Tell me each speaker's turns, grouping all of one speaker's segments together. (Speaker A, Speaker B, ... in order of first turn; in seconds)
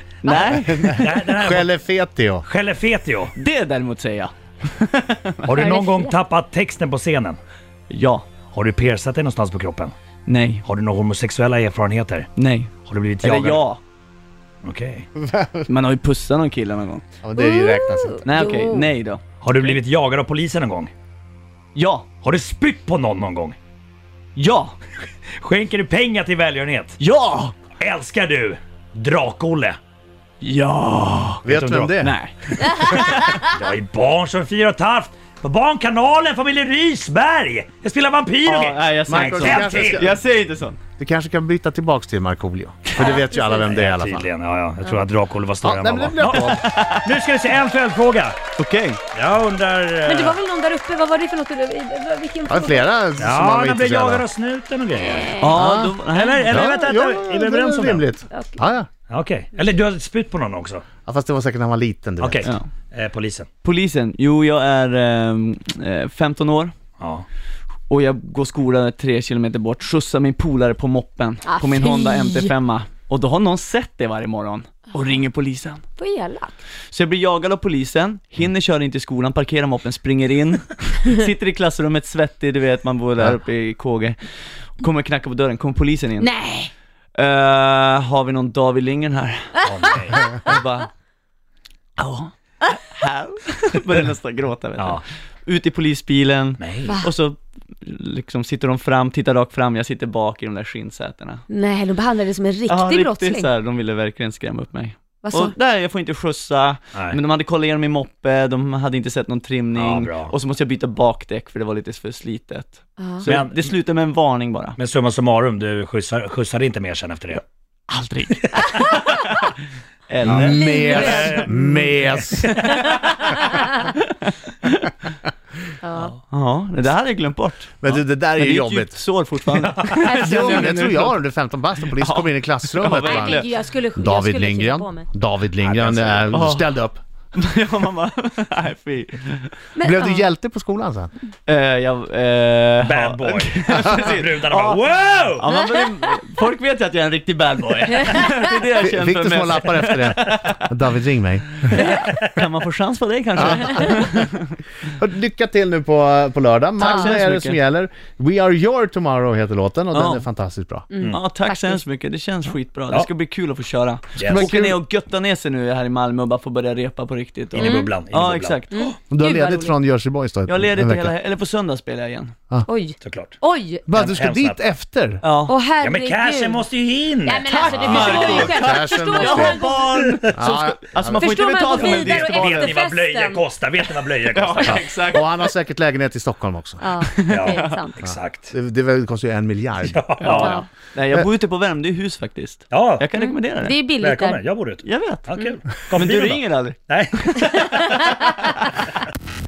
Speaker A: 0.2-0.9, 3.4-5.5, 7.9-8.3, 10.2-10.6, 12.3-12.7, 13.2-13.8, 15.7-17.0, 18.2-19.8, 21.7-22.1, 24.4-24.8, 27.0-27.6, 30.4-31.4, 32.0-33.5, 38.4-40.8, 46.3-47.0, 48.6-49.0, 55.4-56.5, 63.6-66.7, 67.9-75.8, 76.9-84.2, 84.8-86.3, 87.2-90.9, 92.0-101.4, 102.7-114.8, 117.9-119.5, 120.1-120.6, 123.3-124.9, 126.3-131.2, 131.9-133.5, 136.3-136.7, 137.3-139.6, 141.4-150.7, 151.6-154.6, 156.8-157.6, 159.9-160.2, 161.1-168.9, 170.4-172.3, 175.2-175.6, 177.4-182.8, 184.2-185.5, 187.0-187.8, 190.2-193.8, 194.8-198.3
Speaker B: 0.3-1.7, 2.4-3.3, 5.4-7.4, 8.5-9.9, 10.6-12.3, 12.8-13.6, 14.6-15.1, 19.4-20.9, 22.2-23.6, 25.4-27.0, 27.8-29.8, 31.4-31.9, 33.4-40.1, 43.0-48.4, 49.1-50.4, 53.2-55.5, 56.1-58.1, 59.1-60.8, 62.2-63.5, 67.0-67.2, 89.6-90.2, 96.6-96.9, 109.7-110.3, 113.2-113.7, 114.8-117.4, 120.9-122.7, 129.7-130.2, 135.6-136.4, 142.8-145.4, 164.2-164.6, 167.5-168.8, 173.0-173.4, 173.9-174.6, 175.8-178.5, 179.7-180.2, 181.9-184.8, 187.3-188.5, 189.8-190.6, 192.7-193.1, 193.9-198.1
Speaker C: 0.4-2.4, 15.2-15.7, 17.2-18.2, 31.4-32.1, 39.1-40.2, 41.0-44.3, 45.6-46.6, 52.5-54.2, 55.5-55.9, 56.5-58.9, 61.0-62.5, 120.2-122.6, 127.8-129.0, 130.2-133.4, 133.9-137.0, 139.8-141.1, 148.8-151.9, 153.3-154.2, 155.0-160.8, 164.2-164.8, 169.1-171.1, 173.9-175.2, 177.7-179.6, 180.3-181.4, 184.7-186.8, 188.0-190.3
Speaker D: 5.5-6.2, 17.4-18.9, 43.0-43.5, 50.0-52.9, 55.0-55.6, 56.2-56.7, 58.3-58.6, 71.4-72.5, 76.0-76.6, 86.2-86.7, 96.8-97.1, 101.5-103.5, 105.2-105.5, 113.0-113.2, 120.4-121.6, 122.7-123.9, 125.8-126.1, 130.0-130.8, 133.0-135.1, 139.8-140.2, 145.6-146.1, 156.8-157.1, 160.9-161.8, 167.6-167.9, 168.7-169.7, 172.7-173.8, 175.5-179.8, 181.2-183.5, 186.8-188.0, 190.3-190.7, 193.2-194.4, 197.7-198.3